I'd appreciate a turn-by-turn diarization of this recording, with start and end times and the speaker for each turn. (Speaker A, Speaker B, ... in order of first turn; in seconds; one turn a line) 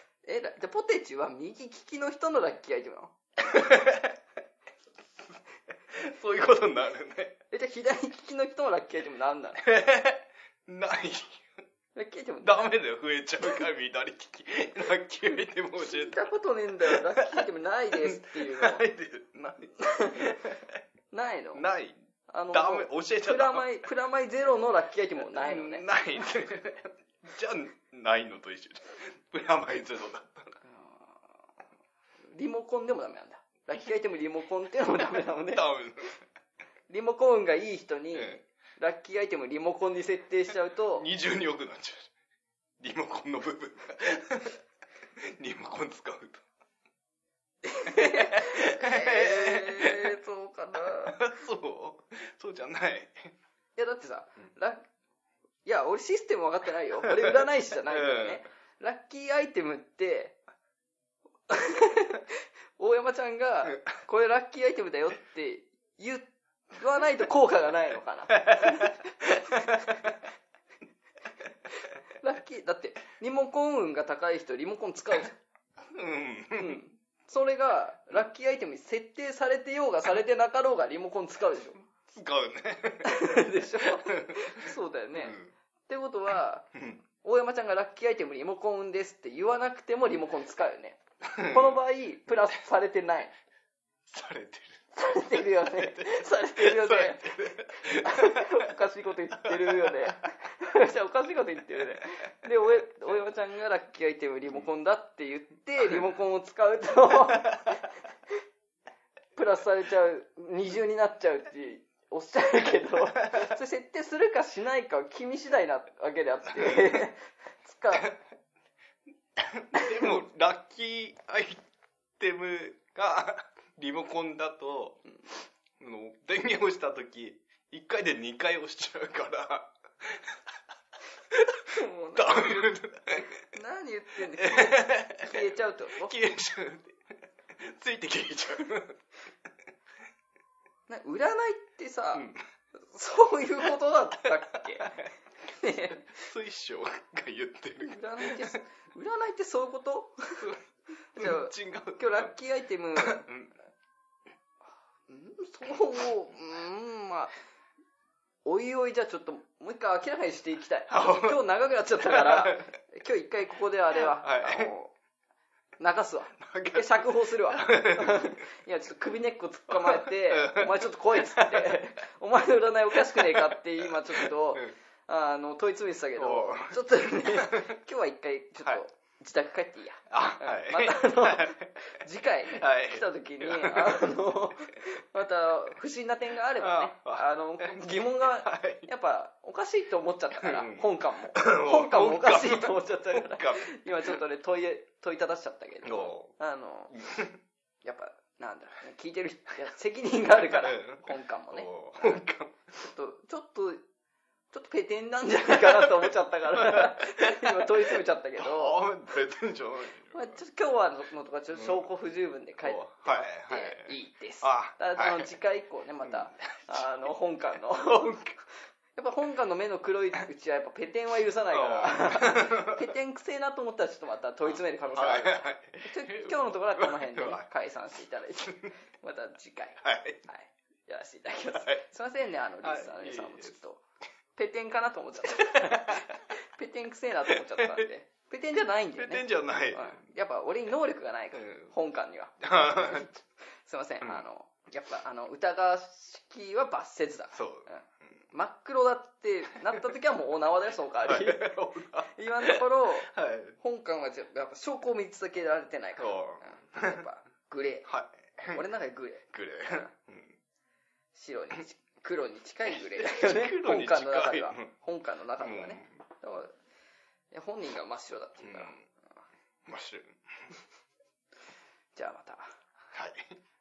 Speaker A: 0.2-3.1
Speaker B: 3.4-4.2
Speaker B: 5.9-7.4
Speaker A: 7.5-9.7
Speaker B: 9.6-11.5
Speaker A: 11.9-12.7
Speaker B: 12.4-16.3
Speaker A: 15.8-18.9
Speaker B: 16.9-17.4
Speaker B: 18.0-20.8
Speaker A: 19.8-20.4
Speaker A: 21.1-21.6
Speaker B: 21.5-22.0
Speaker A: 22.3-25.9
Speaker B: 22.5-23.8
Speaker B: 25.3-30.6
Speaker A: 30.6-31.4
Speaker A: 32.3-36.1
Speaker B: 35.5-36.1
Speaker A: 36.9-41.1
Speaker B: 38.1-38.4
Speaker B: 41.0-42.1
Speaker B: 42.8-44.6
Speaker B: 45.2-46.4
Speaker A: 47.6-51.4
Speaker B: 47.9-50.2
Speaker B: 51.0-53.3
Speaker A: 53.8-54.8
Speaker A: 55.6-60.4
Speaker B: 57.9-58.4
Speaker A: 61.5-70.1
Speaker B: 68.3-69.8
Speaker A: 72.2-75.4
Speaker B: 75.8-76.8
Speaker A: 76.5-81.8
Speaker B: 82.1-85.5
Speaker A: 83.0-86.7
Speaker B: 86.7-87.0
Speaker A: 87.2-93.3
Speaker B: 91.3-91.8
Speaker B: 94.1-98.7
Speaker A: 95.0-107.8
Speaker B: 99.4-100.2
Speaker A: 109.4-118.1
Speaker B: 113.2-113.5
Speaker B: 116.5-117.0
Speaker B: 117.9-118.2
Speaker B: 119.4-121.6
Speaker A: 119.7-120.1
Speaker B: 122.2-125.0
Speaker B: 125.8-130.4
Speaker B: 131.3-133.4
Speaker A: 131.7-132.7
Speaker A: 133.5-136.2
Speaker B: 134.3-135.5
Speaker B: 136.0-139.0
Speaker A: 140.9-144.9
Speaker B: 142.1-142.4
Speaker B: 144.8-145.1
Speaker A: 145.5-146.3
Speaker B: 146.1-148.6
Speaker A: 147.8-150.6
Speaker A: 151.1-153.3
Speaker B: 151.2-152.3
Speaker B: 152.9-153.5
Speaker A: 155.1-157.3
Speaker A: 158.4-164.9
Speaker B: 160.9-161.4
Speaker B: 162.0-162.7
Speaker B: 163.9-164.7
Speaker A: 165.8-197.1
Speaker B: 166.4-168.3
Speaker B: 169.7-171.8
Speaker B: 173.1-174.8
Speaker B: 176.2-177.7
Speaker B: 180.1-181.8
Speaker B: 182.5-184.2
Speaker B: 186.6-188.9
Speaker B: 190.4-194.2
Speaker B: 195.8-196.3
Speaker B: 196.9-197.4
Speaker A: 197.8-202.2
Speaker B: 200.4-202.8
Speaker A: 202.8-203.8
Speaker A: 204.5-208.8
Speaker B: 205.5-210.4
Speaker A: 210.1-218.2
Speaker B: 211.5-211.9
Speaker B: 212.6-215.3
Speaker B: 216.0-216.9
Speaker B: 217.8-218.4
Speaker A: 219.0-233.8
Speaker B: 221.5-222.9
Speaker B: 224.5-227.5
Speaker B: 229.8-230.2
Speaker B: 231.5-231.8
Speaker B: 232.6-233.6
Speaker A: 234.4-243.1
Speaker B: 235.5-236.1
Speaker B: 237.3-237.8
Speaker B: 238.9-240.0
Speaker B: 241.3-241.7
Speaker B: 242.4-243.1
Speaker A: 243.6-257.9
Speaker B: 247.3-248.2
Speaker B: 251.0-253.6
Speaker B: 256.0-257.0
Speaker B: 257.9-258.6
Speaker A: 258.5-259.9
Speaker B: 259.3-260.4
Speaker A: 261.1-266.5
Speaker B: 262.8-264.7
Speaker B: 265.4-266.0
Speaker A: 267.3-268.9
Speaker B: 268.4-268.8
Speaker B: 269.7-270.6
Speaker A: 271.9-272.5
Speaker B: 272.9-273.4